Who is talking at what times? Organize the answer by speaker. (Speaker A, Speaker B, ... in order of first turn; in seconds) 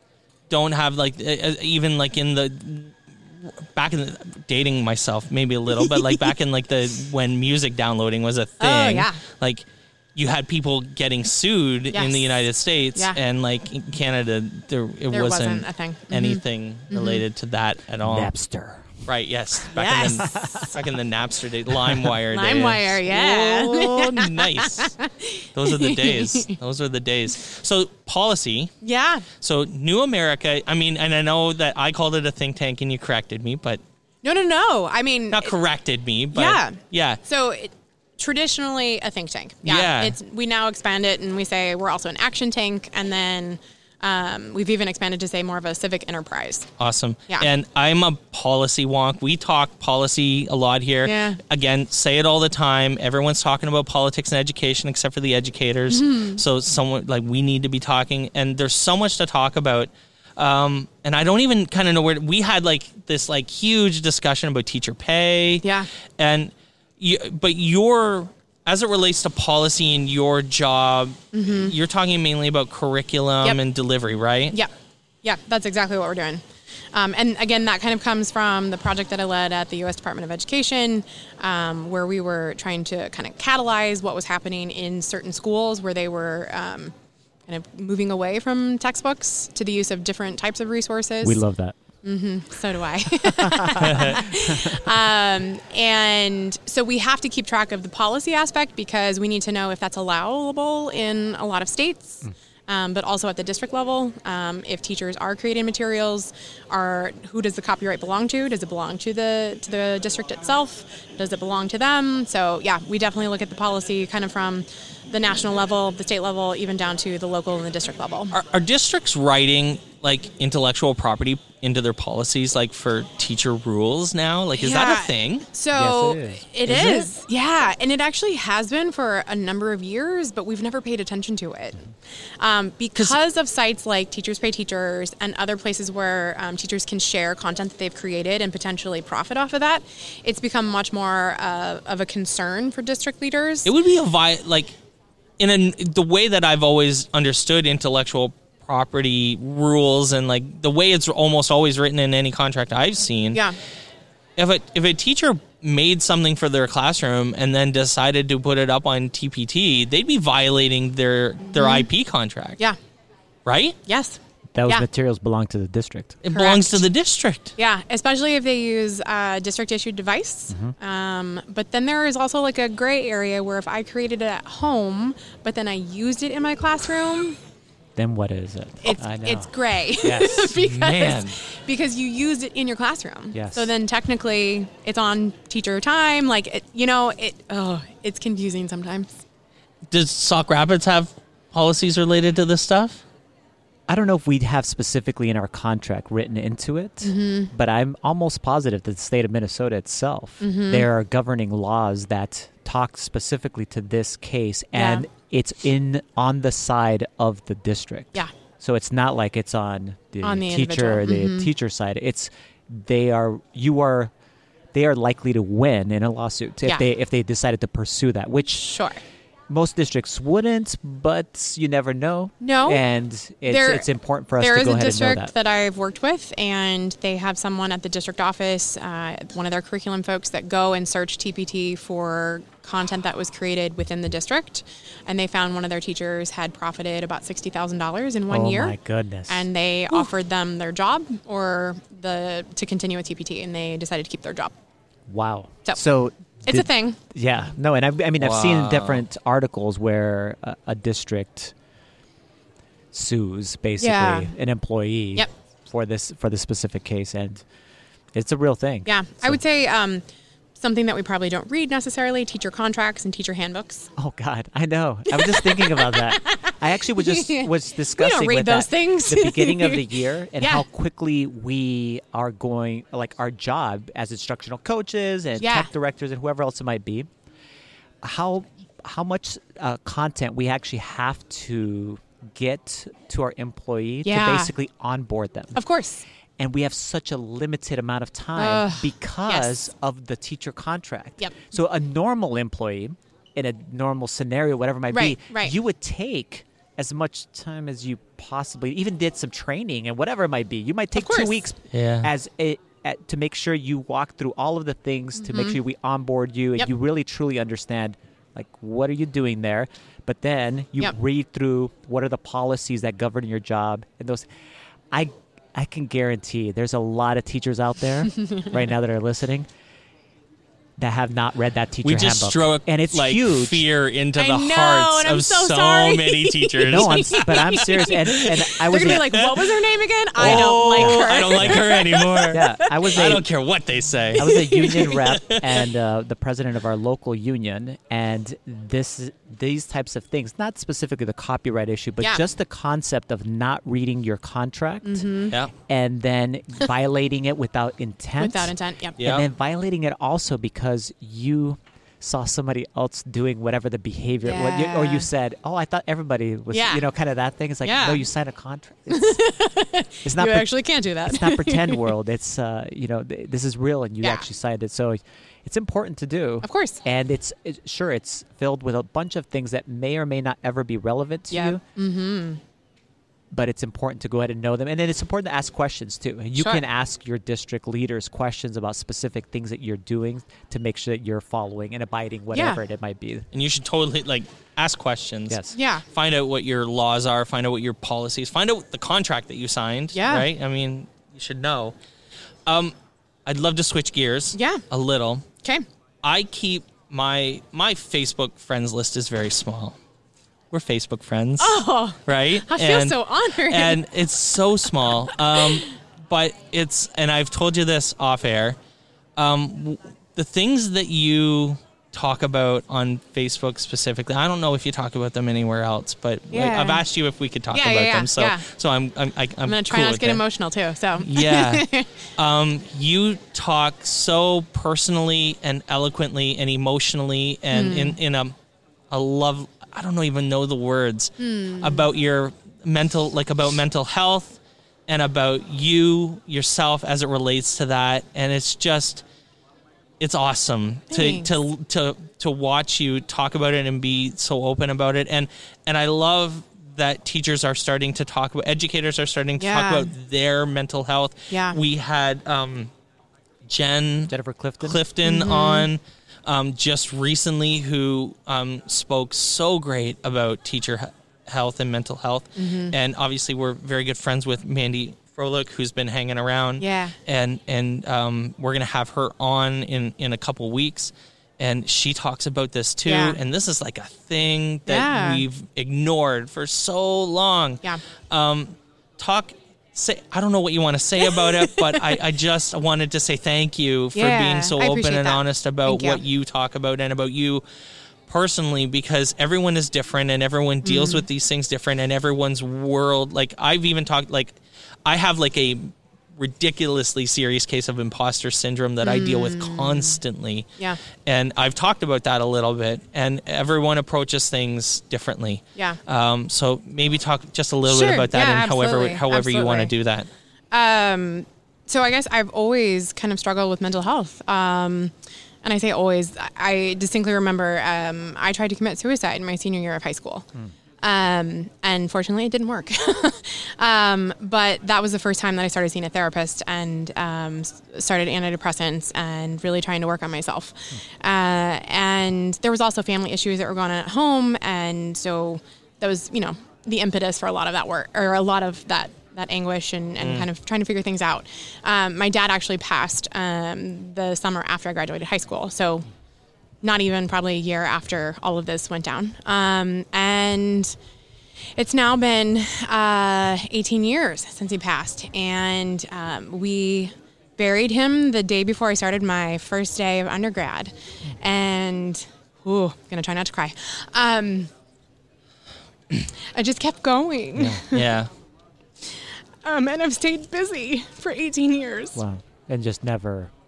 Speaker A: 0.5-18.3, 19.1-24.9, 25.5-28.7, 29.4-33.8, 35.3-37.2, 39.6-40.2, 46.8-74.5, 93.8-94.2, 118.3-125.5, 143.6-144.7, 145.4-153.4, 154.4-162.6, 163.4-163.8, 166.2-167.5, 180.5-181.4, 189.9-193.0, 248.2-249.0, 301.7-302.1, 321.8-328.3, 328.9-329.4, 330.2-335.5, 349.0-349.2, 383.3-391.7, 392.4-392.7, 393.2-395.2, 396.0-399.8, 400.5-408.6, 409.2-420.2, 421.0-428.3, 428.9-439.0, 440.0-452.7, 453.4-454.1, 454.6-487.4, 488.1-494.3, 494.8-500.5, 501.1-510.1, 540.0-540.3, 567.4-568.1
Speaker B: 5.7-6.3, 8.6-9.2, 11.9-12.4, 12.9-13.2, 15.1-17.2, 19.7-20.8, 22.3-26.5, 28.8-29.2, 34.2-35.5, 36.3-46.7, 51.0-51.4, 55.9-56.4, 65.6-65.9, 71.3-71.7, 75.2-86.9, 87.5-91.4, 92.0-118.3, 124.5-131.8, 132.4-143.7, 161.5-161.9, 163.8-164.8, 166.3-166.8, 167.6-177.4, 178.8-189.2, 197.0-197.5, 200.4-200.9, 204.7-205.1, 210.2-211.5, 218.5-219.0, 222.4-222.8, 223.5-223.9, 224.4-238.7, 239.3-244.5, 246.4-247.0, 253.8-254.3, 258.8-260.0, 260.6-263.9, 265.1-270.6, 275.4-275.7, 284.0-284.5, 285.5-286.0, 288.4-289.6, 294.9-295.5, 300.9-301.4, 305.2-305.6, 318.2-318.5, 324.2-333.0, 334.2-335.0, 344.8-345.3, 348.2-349.0, 354.2-355.1, 356.5-356.8, 357.6-358.0, 358.9-361.9, 364.0-364.2, 366.4-366.8, 371.3-372.4, 376.4-376.6, 382.3-382.6, 385.5-385.8, 389.9-390.3, 394.3-394.6, 401.4-403.8, 405.3-405.7, 416.3-416.8, 417.5-418.4, 419.4-421.9, 427.5-428.0, 431.2-431.9, 440.9-441.3, 449.4-449.9, 451.3-451.6, 455.0-455.7, 462.4-462.7, 466.6-466.9, 472.9-473.2, 474.6-475.2, 481.0-482.0, 483.9-486.0, 490.6-491.0, 498.8-500.0, 507.7-509.7, 510.5-514.9, 515.4-520.3, 520.8-545.8, 546.6-550.8, 551.5-564.5, 566.2-567.9, 568.8-572.0
Speaker C: 18.0-19.0, 20.2-20.7, 91.2-91.8, 93.2-94.8, 125.7-127.1, 164.5-166.2, 177.9-180.5, 183.3-183.7, 193.9-214.1, 214.7-218.7, 219.5-225.3, 238.3-240.0, 245.1-251.5, 252.9-257.4, 258.1-259.4, 264.0-277.1, 278.0-285.6, 286.4-314.3, 314.9-319.5, 320.8-323.6, 326.6-329.2, 330.2-331.6, 332.3-333.2, 334.2-359.2, 360.0-360.5, 361.0-371.6, 373.3-383.2, 385.3-385.5, 454.1-454.8, 571.9-573.3